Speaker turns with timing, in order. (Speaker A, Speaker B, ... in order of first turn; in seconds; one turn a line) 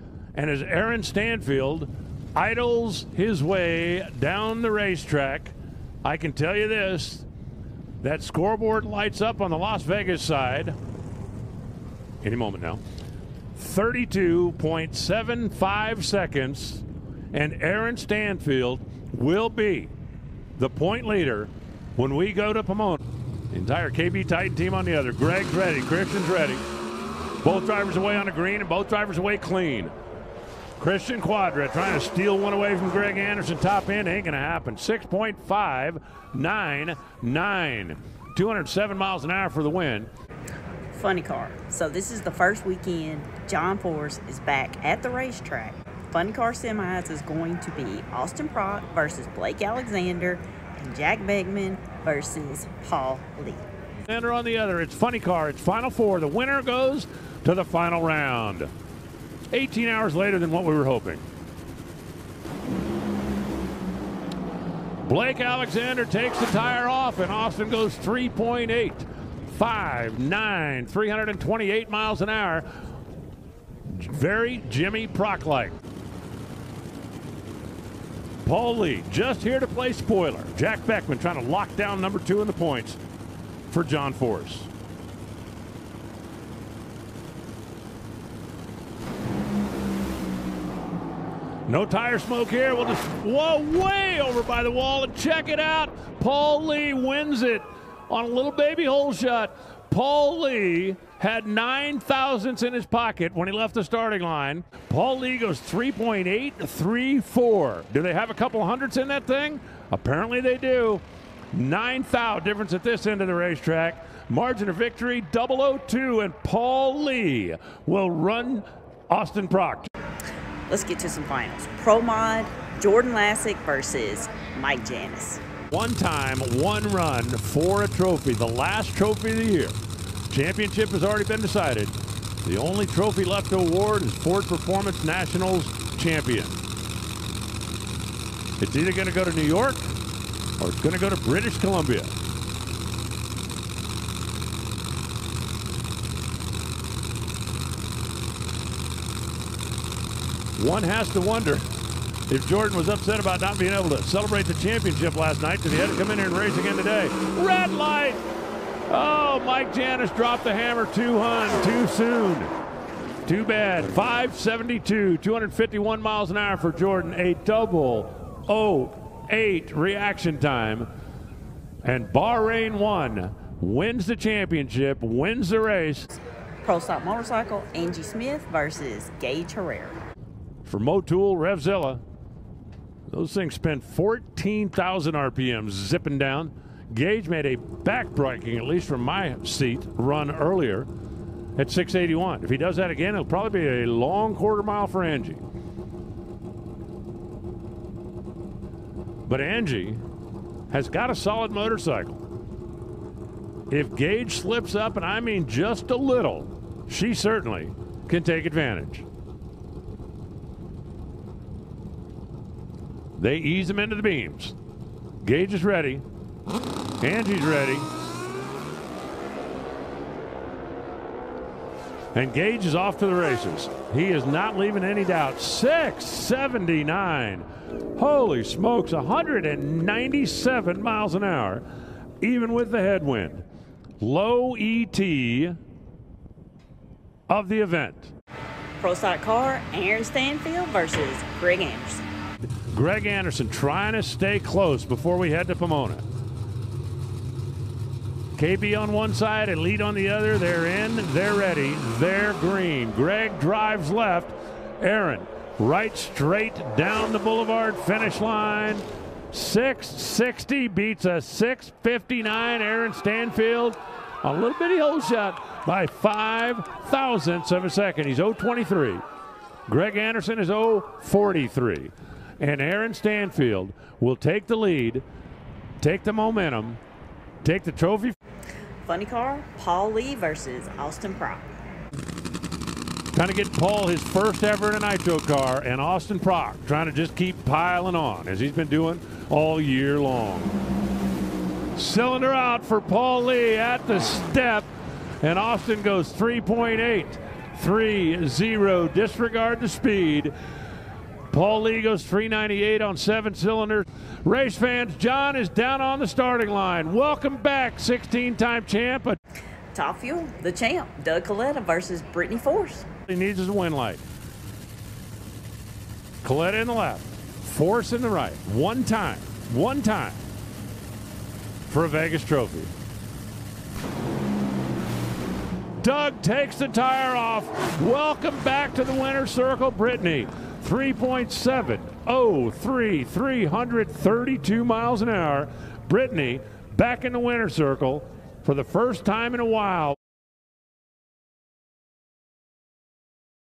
Speaker A: 0.3-7.2
Speaker A: 8.0-10.8
Speaker A: 12.2-12.8
Speaker A: 13.5-19.9
Speaker A: 20.6-23.0
Speaker A: 23.5-26.6
Speaker A: 27.4-29.9
Speaker A: 30.8-40.1
Speaker B: 40.9-53.6
Speaker A: 54.1-58.7
Speaker A: 59.5-61.2
Speaker A: 65.0-72.7
Speaker A: 73.8-75.8
Speaker A: 78.4-83.0
Speaker A: 83.7-84.7
Speaker A: 91.7-119.9
Speaker B: 120.7-125.4
Speaker A: 125.7-129.8
Speaker A: 130.3-136.6
Speaker A: 138.6-139.9
Speaker A: 140.6-142.1
Speaker A: 150.6-151.7
Speaker A: 152.3-158.2
Speaker A: 158.9-162.5
Speaker A: 163.2-170.9
Speaker A: 171.8-176.1
Speaker B: 176.6-180.0
Speaker A: 180.7-182.0
Speaker A: 183.1-190.9
Speaker A: 191.6-195.4
Speaker A: 199.2-200.0
Speaker A: 200.7-202.2
Speaker A: 203.7-209.1
Speaker A: 213.2-214.5
Speaker A: 215.2-216.0
Speaker A: 217.0-217.9
Speaker A: 222.1-231.6
Speaker A: 232.2-233.4
Speaker A: 234.0-235.6
Speaker A: 237.3-238.1
Speaker B: 238.8-242.0
Speaker A: 242.7-246.0
Speaker A: 248.3-269.0
Speaker A: 269.7-275.0
Speaker A: 275.8-276.8
Speaker A: 277.4-278.1
Speaker B: 278.8-281.4
Speaker A: 283.1-290.6
Speaker A: 291.7-294.7
Speaker A: 295.2-300.3
Speaker A: 301.3-309.2
Speaker B: 309.7-312.9
Speaker A: 313.1-314.0
Speaker A: 316.2-320.2
Speaker A: 321.7-322.7
Speaker A: 325.8-339.9